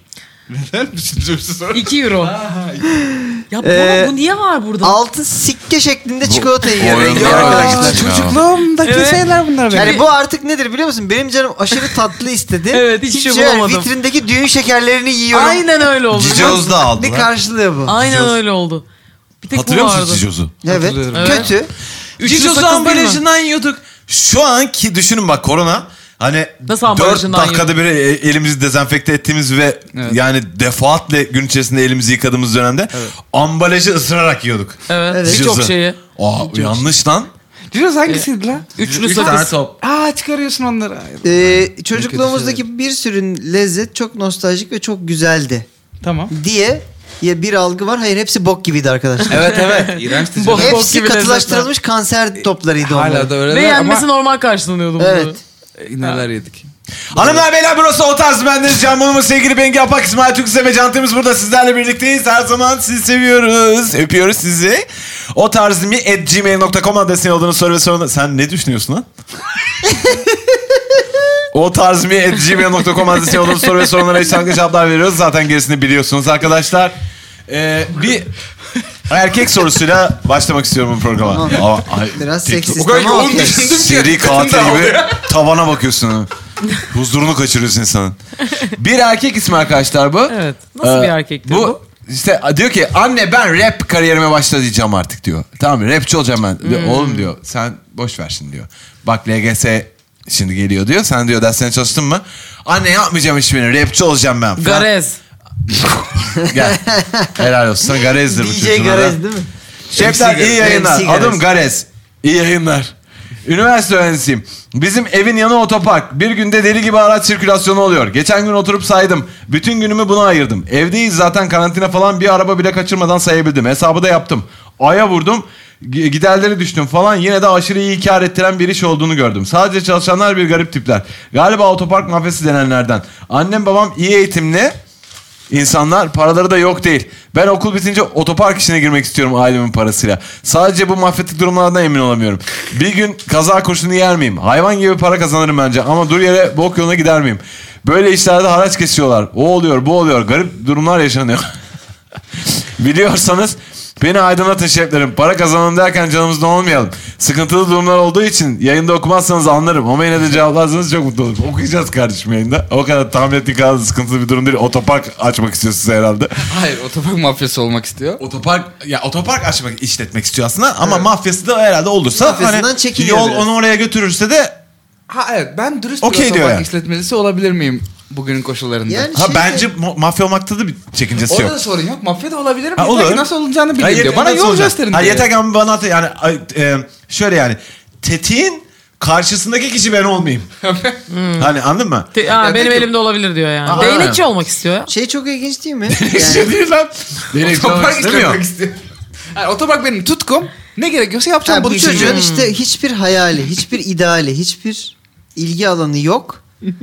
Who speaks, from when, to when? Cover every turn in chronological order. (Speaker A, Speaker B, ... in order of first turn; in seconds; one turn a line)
Speaker A: 0.5-2.9
Speaker B: 1.7-2.4
Speaker C: 3.0-4.2
Speaker B: 3.5-5.0
Speaker C: 4.8-8.3
Speaker D: 6.2-8.4
Speaker A: 6.9-10.0
Speaker B: 8.8-10.0
Speaker C: 9.7-15.6
Speaker B: 12.7-13.9
Speaker B: 15.3-16.7
Speaker D: 16.1-17.3
Speaker C: 16.3-18.0
Speaker B: 17.9-18.8
Speaker D: 18.0-18.4
Speaker B: 19.4-20.2
Speaker D: 19.5-20.6
Speaker C: 20.6-21.7
Speaker A: 20.6-21.6
Speaker B: 21.1-21.5
Speaker D: 22.2-37.3
Speaker B: 22.2-23.2
Speaker B: 26.7-27.7
Speaker B: 34.9-36.0
Speaker C: 35.1-35.5
Speaker A: 36.5-36.9
Speaker A: 37.7-42.6
Speaker B: 38.1-39.5
Speaker D: 38.8-39.8
Speaker C: 41.2-45.7
Speaker A: 46.0-46.3
Speaker C: 46.3-49.5
Speaker A: 49.3-50.8
Speaker B: 49.4-51.7
Speaker C: 50.5-53.3
Speaker A: 52.8-54.1
Speaker B: 53.5-55.4
Speaker C: 55.0-55.4
Speaker A: 55.8-57.4
Speaker D: 57.1-69.1
Speaker D: 71.5-77.0
Speaker D: 77.5-78.3
Speaker D: 79.1-86.3
Speaker C: 81.2-83.7
Speaker A: 82.8-85.3
Speaker D: 86.8-104.9
Speaker B: 90.3-91.8
Speaker B: 96.6-97.3
Speaker B: 104.6-105.2
Speaker D: 106.3-106.8
Speaker C: 106.4-107.5
Speaker D: 107.3-109.2
Speaker C: 108.2-109.5
Speaker A: 109.9-110.7
Speaker D: 109.9-112.9
Speaker C: 110.6-111.4
Speaker D: 113.5-134.7
Speaker D: 135.5-151.5
Speaker D: 152.4-166.5
Speaker A: 166.4-168.2
Speaker D: 168.2-174.6
Speaker C: 172.1-173.5
Speaker A: 175.1-179.1
Speaker D: 176.0-176.7
Speaker C: 178.9-179.7
Speaker D: 179.1-181.6
Speaker A: 181.2-185.3
Speaker D: 182.8-190.5
Speaker A: 190.6-191.0
Speaker B: 191.1-191.6
Speaker D: 191.4-192.1
Speaker B: 192.1-194.9
Speaker A: 192.4-192.9
Speaker D: 193.7-194.2
Speaker A: 193.7-194.0
Speaker C: 194.9-196.5
Speaker D: 195.9-198.4
Speaker A: 197.4-198.8
Speaker A: 199.3-202.2
Speaker C: 201.5-206.4
Speaker B: 201.9-202.5